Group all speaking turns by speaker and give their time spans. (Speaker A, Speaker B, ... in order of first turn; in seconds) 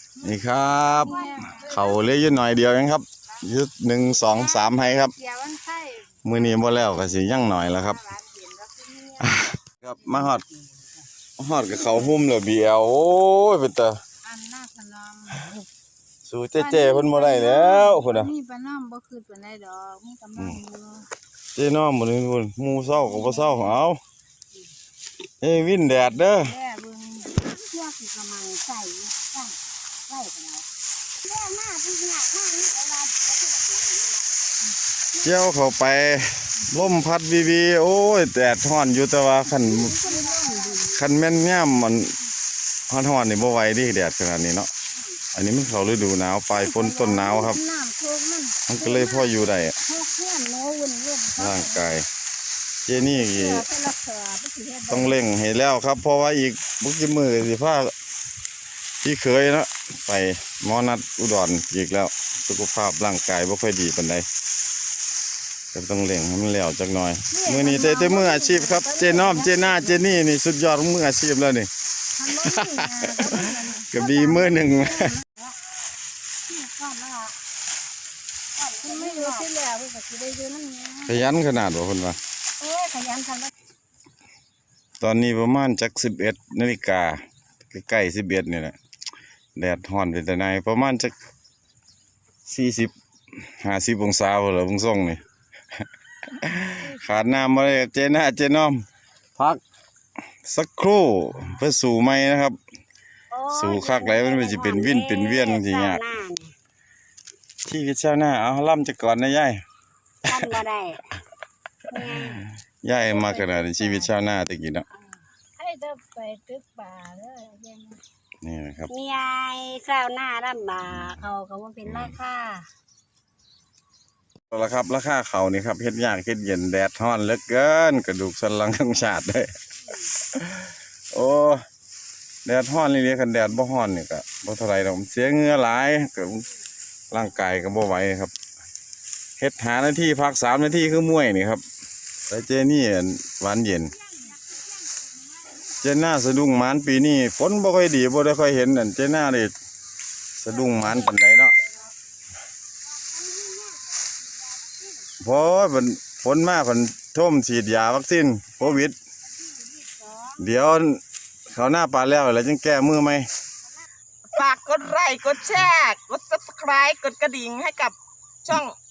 Speaker A: 0.2-2.1, 4.2-4.6, 5.2-9.3, 14.2-15.4, 16.6-21.1, 22.9-23.8, 26.4-27.4, 39.5-40.9, 46.5-49.3, 49.8-51.9, 53.0-55.2, 67.3-70.2, 72.2-75.3, 78.8-81.3, 82.6-83.4, 112.9-114.1, 115.6-118.0
Speaker B: 0.2-5.2, 6.2-8.0, 9.2-10.4, 11.4-14.0, 16.3-18.3, 20.4-20.6, 21.6-24.0, 25.4-26.6, 35.2-40.0, 40.9-42.1, 42.9-44.7, 45.3-47.6, 48.7-49.8, 51.4-52.1, 52.9-53.7, 54.9-57.9, 59.0-64.3, 65.7-71.7, 72.3-75.1, 81.1-82.2, 85.0-88.8, 89.6-91.2, 92.5-92.9, 93.6-95.2, 96.3-98.8, 100.5-102.6, 103.5-106.0, 107.7-109.6, 110.3-110.6, 112.0-114.9, 118.4-118.9, 120.9-121.2, 121.8-122.2, 124.5-129.5, 130.3-131.6, 132.4-136.5, 137.1-138.3, 139.4-141.6, 142.3-143.9, 145.7-149.5, 150.4-151.6, 155.2-159.0, 160.4-163.3
Speaker C: 1.0-1.5, 27.2-29.6, 30.1-30.7, 31.2-34.3, 39.9-40.9, 76.5-77.3, 78.6-79.5, 82.7-83.5, 103.3-106.5, 110.3-111.0, 111.9-112.4, 118.9-122.7, 144.9-145.6, 153.0-155.1, 159.5-160.4
Speaker D: 164.3-168.8